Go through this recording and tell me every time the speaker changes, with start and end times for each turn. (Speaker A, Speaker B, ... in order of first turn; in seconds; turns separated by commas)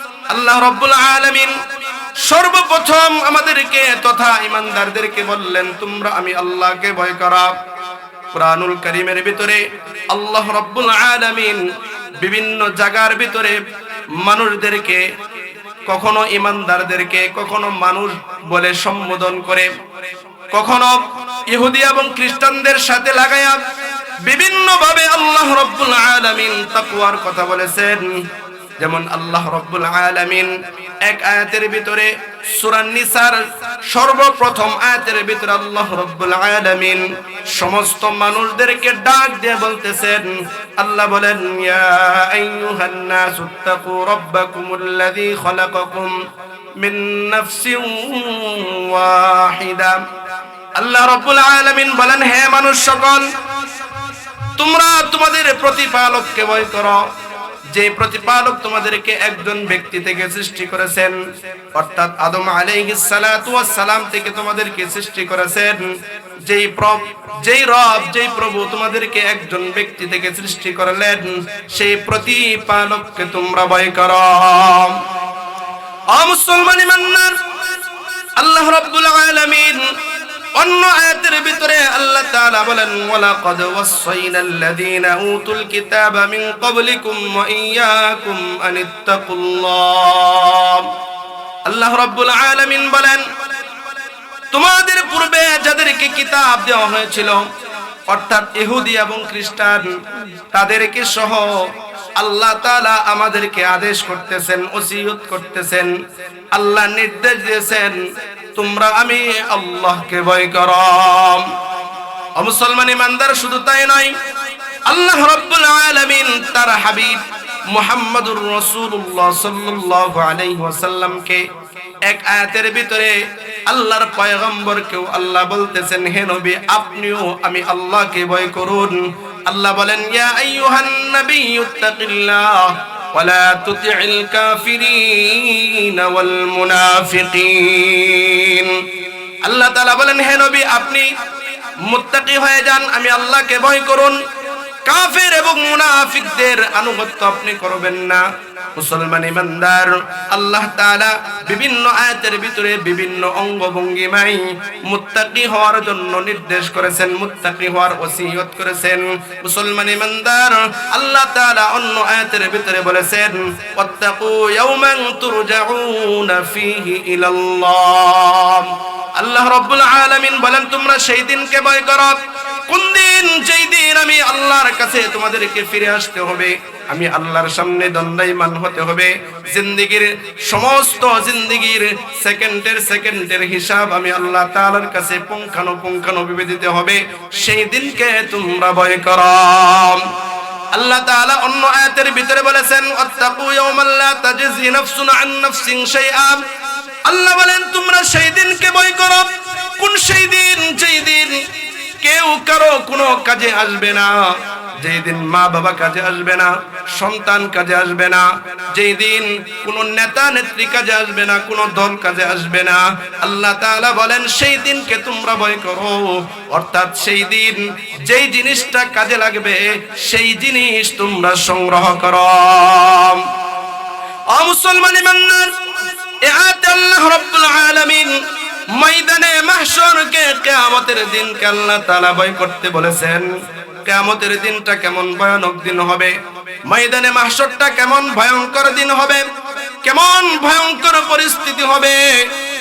Speaker A: 0.3-1.6, Speaker A: 2.2-7.6, Speaker A: 8.3-11.7, Speaker A: 12.2-13.6, Speaker A: 14.2-15.1, Speaker A: 15.9-19.7, Speaker A: 20.5-23.6, Speaker A: 24.2-28.2, Speaker A: 28.8-46.2, Speaker A: 46.8-50.1, Speaker A: 50.8-53.3, Speaker A: 54.6-57.1, Speaker A: 57.7-61.2, Speaker A: 61.7-75.0, Speaker A: 76.1-77.4, Speaker A: 78.4-80.0, Speaker A: 80.6-90.9, Speaker A: 91.7-93.3, Speaker A: 94.5-97.5, Speaker A: 98.1-106.0, Speaker A: 106.5-108.0, Speaker A: 108.5-111.6, Speaker A: 112.4-114.2, Speaker A: 114.9-121.5, Speaker A: 122.0-138.9, Speaker A: 139.4-141.1, Speaker A: 141.8-144.2, Speaker A: 144.8-190.1, Speaker A: 190.7-196.5, Speaker A: 197.1-201.4, Speaker A: 202.0-223.3, Speaker A: 224.3-225.6, Speaker A: 226.2-233.3, Speaker A: 233.8-239.3, Speaker A: 239.8-242.4